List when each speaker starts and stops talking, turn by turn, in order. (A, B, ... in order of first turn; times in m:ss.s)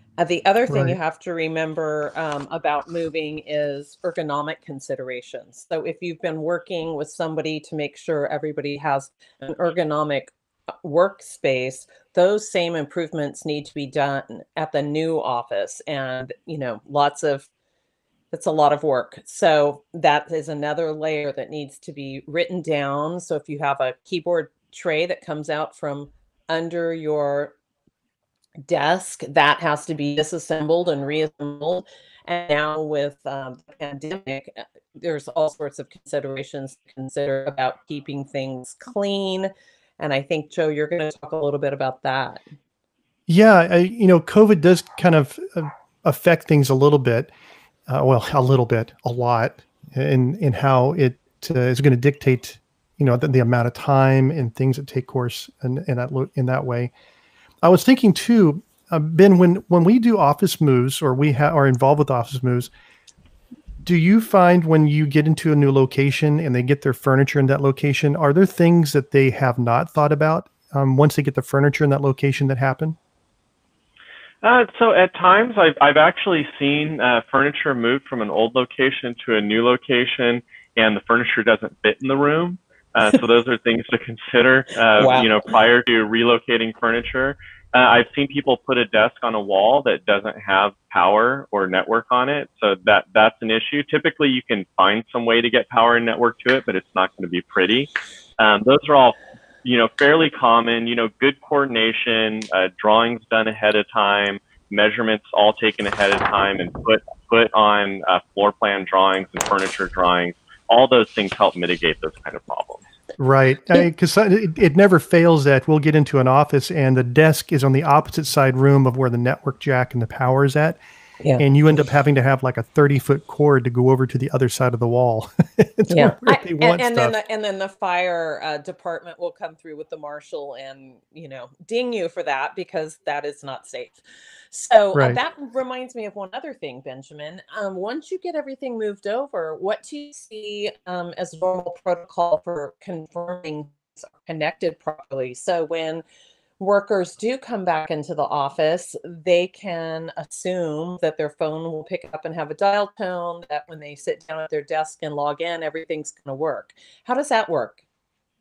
0:00.2-0:10.3 A
0:00.7-0:01.0 B
0:10.8-0:17.5 A
0:18.3-0:27.5 A
0:28.6-0:42.4 A
0:43.3-0:47.3 B
0:47.9-0:56.9 B
0:57.6-1:02.7 B
1:03.8-1:13.0 B
1:14.4-1:52.8 C
1:25.0-1:25.3 A
1:53.2-2:00.8 B
2:01.4-2:07.1 B
2:05.9-2:14.0 A
2:14.5-2:26.0 A
2:26.6-2:37.8 A